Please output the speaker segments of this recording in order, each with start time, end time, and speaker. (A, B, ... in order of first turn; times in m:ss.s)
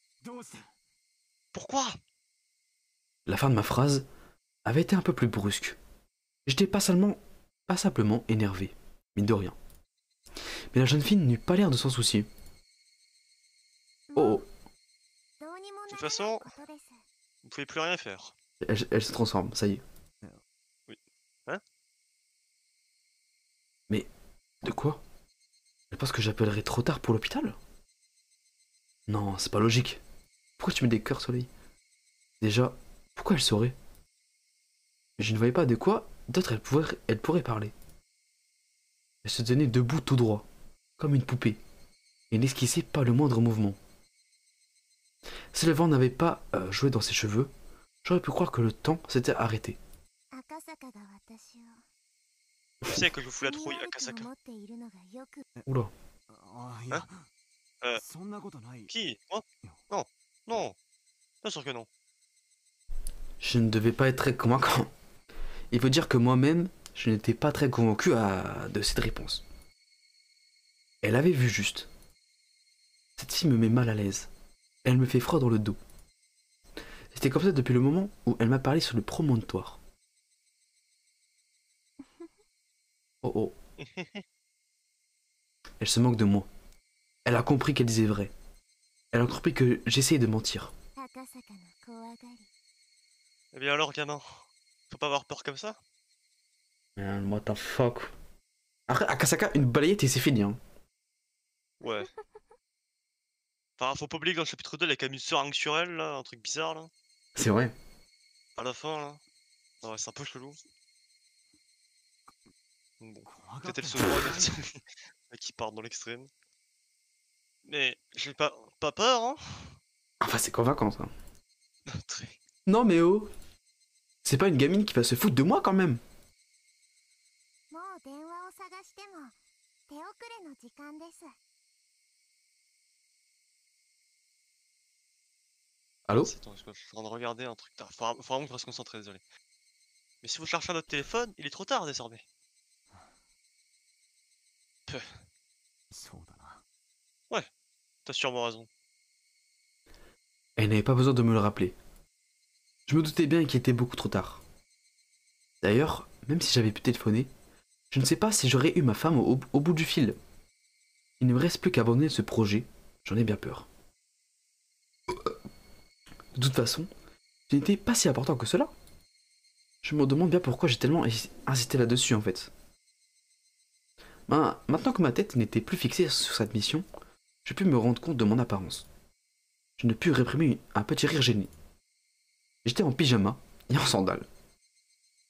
0:00.2-0:00.7 A
0:01.5-0:02.0 B
0:03.3-0:04.0 C
0:04.6-0:05.8 C
0:06.5-0:09.6 C
0:10.7-0:12.3 C
0:14.1-0:14.5 D
0:14.2-0:14.4 C
0:15.4-0:17.0 D
0:15.9-0:16.5 B
0:17.4-0:18.3 B
0:18.6-0:19.8 C
0:20.9-0:21.6 B
0:24.6-0:25.0 C
0:25.9-0:27.6 C
0:29.1-0:30.0 C
0:30.6-0:31.5 C
0:32.4-0:33.7 C
0:35.2-0:37.7 C
0:39.2-0:40.4 C
0:41.0-0:41.6 C
0:42.3-0:43.8 C
0:45.5-0:47.5 C
0:48.0-0:49.8 C
0:50.3-0:51.8 D
0:52.9-0:54.3 B
0:53.4-0:55.4 D
0:55.7-0:55.9 C
0:56.3-0:57.3 A
0:57.9-0:58.9 A
0:58.9-1:00.7 B
1:01.4-1:01.9 B
1:03.4-1:04.9 C
1:05.7-1:09.4 C
1:11.0-1:11.9 C
1:13.2-1:14.3 C
1:14.8-1:15.8 C
1:17.1-1:19.8 C
1:22.0-1:22.3 D
1:23.2-1:23.5 C
1:23.8-1:24.2 B
1:25.8-1:26.5 C
1:27.2-1:28.3 C
1:29.1-1:30.7 C
1:31.0-1:32.5 D
1:33.5-1:35.8 B
1:37.0-1:38.1 C
1:38.9-1:40.6 C
1:41.8-1:42.1 B
1:41.8-1:42.2 D
1:43.8-1:46.9 B
1:47.4-1:47.7 C
1:48.6-1:49.2 B
1:49.8-1:50.6 B
1:53.0-1:54.8 B
1:53.2-1:54.6 A
1:55.3-1:56.3 B
1:57.6-1:59.8 B
2:00.2-2:01.1 C
2:01.9-2:02.4 B
2:02.6-2:03.3 C
2:04.2-2:06.0 C
2:07.7-2:09.4 D
2:09.9-2:11.4 D
2:16.2-2:19.2 B
2:20.2-2:22.2 B
2:24.9-2:25.2 B
2:25.9-2:26.6 A
2:28.0-2:28.7 B
2:30.6-2:31.8 C
2:32.9-2:34.4 C
2:35.6-2:37.3 C
2:37.9-2:40.2 C
2:41.2-2:43.7 C
2:46.3-2:46.9 C
2:47.5-2:48.7 C
2:49.8-2:52.5 C
2:54.3-2:56.9 C
2:57.4-2:58.9 C
2:59.8-3:01.5 C
3:02.6-3:04.3 C